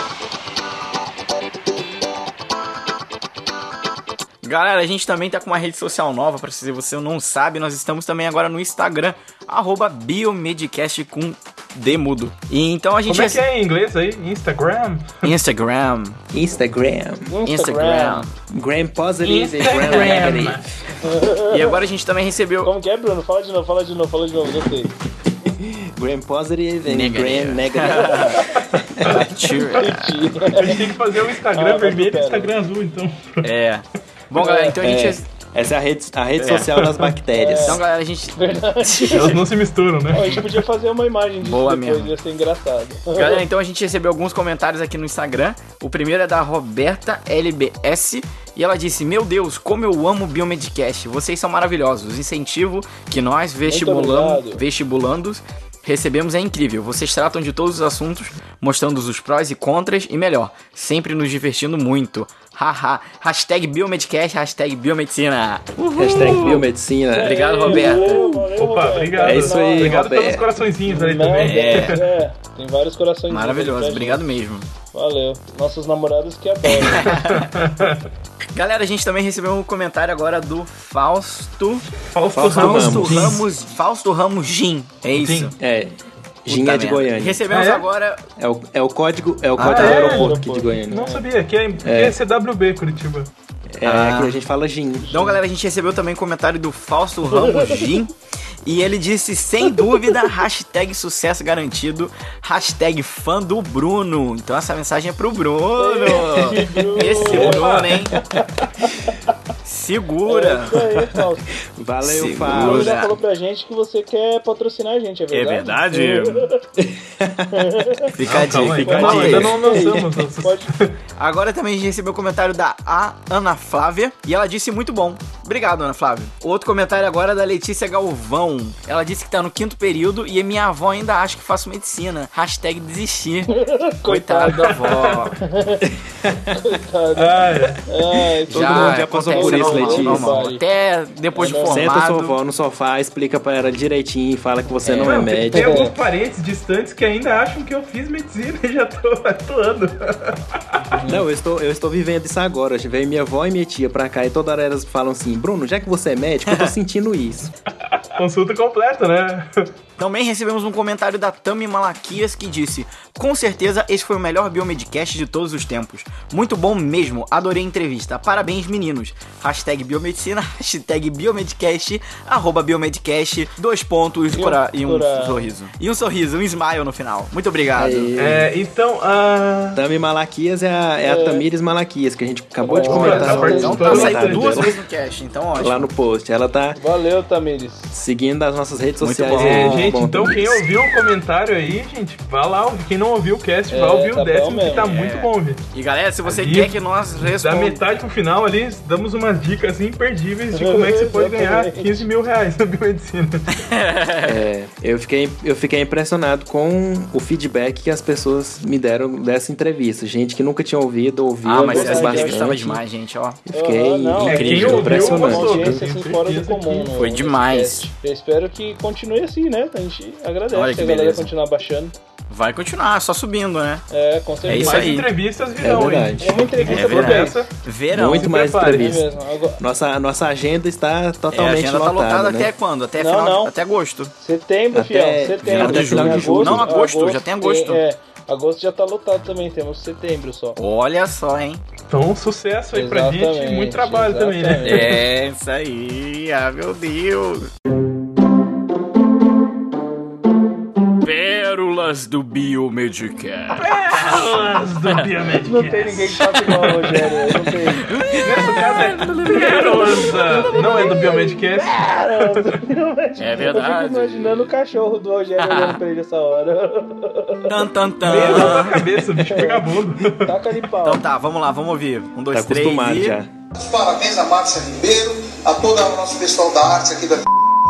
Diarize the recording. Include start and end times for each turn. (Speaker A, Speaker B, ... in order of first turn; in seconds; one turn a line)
Speaker A: 4.4-13.4
Speaker B: 13.1-15.3
Speaker A: 15.2-16.2
Speaker C: 16.3-17.3
Speaker D: 17.3-18.3
Speaker A: 17.5-18.3
Speaker C: 18.5-20.6
Speaker B: 19.2-20.6
Speaker A: 19.8-20.3
Speaker D: 21.0-21.8
Speaker A: 21.5-22.7
Speaker D: 22.6-24.9
Speaker C: 25.4-29.3
Speaker A: 26.9-28.4
Speaker A: 29.0-30.2
Speaker D: 29.8-30.9
Speaker B: 30.5-33.5
Speaker D: 31.5-32.5
Speaker A: 33.4-35.3
Speaker D: 34.3-34.8
Speaker C: 34.8-37.8
Speaker A: 36.4-36.8
Speaker D: 37.3-37.8
Speaker A: 37.6-39.4
Speaker D: 38.4-39.4
Speaker B: 39.1-40.6
Speaker D: 40.1-43.5
Speaker A: 41.4-42.1
Speaker A: 43.1-66.7
Speaker D: 53.6-54.6
Speaker C: 66.0-67.5
Speaker D: 67.1-70.1
Speaker A: 67.2-68.2
Speaker B: 67.7-72.0
Speaker C: 69.2-70.5
Speaker D: 70.9-74.4
Speaker A: 71.4-72.0
Speaker A: 73.3-74.7
Speaker D: 74.9-77.2
Speaker A: 76.7-77.5
Speaker B: 77.1-78.0
Speaker A: 78.5-81.9
Speaker B: 81.9-83.4
Speaker C: 82.3-83.4
Speaker A: 82.5-85.5
Speaker B: 85.1-85.5
Speaker C: 85.6-87.4
Speaker A: 86.5-88.2
Speaker B: 87.5-87.9
Speaker C: 88.4-91.1
Speaker B: 89.6-90.4
Speaker D: 89.6-91.2
Speaker B: 90.9-93.3
Speaker C: 91.8-92.2
Speaker C: 93.8-95.1
Speaker A: 93.8-94.4
Speaker D: 95.0-95.4
Speaker A: 95.1-98.1
Speaker D: 97.3-97.8
Speaker A: 98.7-108.2
Speaker D: 105.8-107.8
Speaker B: 107.2-108.0
Speaker D: 108.8-109.1
Speaker A: 109.6-110.8
Speaker D: 110.3-111.5
Speaker C: 111.8-113.0
Speaker A: 112.0-113.1
Speaker D: 112.5-116.6
Speaker A: 115.3-116.5
Speaker C: 116.8-117.9
Speaker D: 117.5-118.1
Speaker A: 118.1-119.6
Speaker B: 118.2-120.9
Speaker D: 118.8-120.7
Speaker C: 119.2-120.2
Speaker A: 121.2-133.5
Speaker D: 133.5-134.8
Speaker A: 134.1-135.4
Speaker B: 134.6-135.3
Speaker D: 135.4-135.9
Speaker C: 136.1-136.6
Speaker D: 136.5-140.6
Speaker B: 137.2-137.8
Speaker C: 138.5-140.4
Speaker A: 138.5-142.3
Speaker D: 141.3-141.9
Speaker C: 141.7-145.8
Speaker D: 144.9-145.9
Speaker B: 145.0-150.8
Speaker D: 150.8-151.3
Speaker C: 151.1-157.5
Speaker A: 156.5-156.7
Speaker B: 157.9-159.7
Speaker A: 160.0-178.1
Speaker D: 174.3-175.5
Speaker C: 177.8-178.5
Speaker B: 178.2-179.8
Speaker C: 179.8-184.7
Speaker D: 181.0-181.5
Speaker D: 182.6-184.1
Speaker B: 182.7-184.8
Speaker A: 183.1-185.9
Speaker C: 185.6-186.8
Speaker D: 186.8-187.9
Speaker C: 187.9-190.6
Speaker A: 189.0-189.8
Speaker B: 189.4-195.6
Speaker D: 193.7-194.9
Speaker A: 194.8-197.8
Speaker B: 196.2-203.5
Speaker D: 200.5-202.1
Speaker A: 203.6-204.4
Speaker C: 204.2-212.8
Speaker A: 211.4-213.4
Speaker D: 211.6-212.5
Speaker C: 213.5-215.8
Speaker D: 213.5-221.9
Speaker B: 214.2-216.9
Speaker A: 217.0-217.9
Speaker A: 220.5-221.3
Speaker A: 222.3-223.8
Speaker D: 223.9-225.0
Speaker A: 224.5-225.1
Speaker B: 224.5-227.5
Speaker C: 225.6-226.3
Speaker D: 226.2-227.5
Speaker A: 226.7-228.3
Speaker C: 227.9-229.1
Speaker B: 228.1-229.1
Speaker D: 228.7-229.6
Speaker C: 229.6-232.5
Speaker A: 231.3-234.1
Speaker D: 233.0-233.5
Speaker D: 234.2-240.6
Speaker C: 234.7-236.7
Speaker A: 235.4-237.8
Speaker A: 240.6-241.6
Speaker B: 241.9-245.0
Speaker D: 242.7-245.0
Speaker A: 244.6-247.5
Speaker A: 251.0-254.2
Speaker B: 253.6-257.1
Speaker D: 255.4-257.9
Speaker A: 256.9-261.1
Speaker B: 258.2-262.6
Speaker D: 259.4-271.0
Speaker A: 263.2-264.5
Speaker A: 265.4-265.8
Speaker A: 267.4-268.9
Speaker B: 268.0-270.4
Speaker A: 270.8-273.2
Speaker C: 272.3-273.3
Speaker E: 273.6-277.3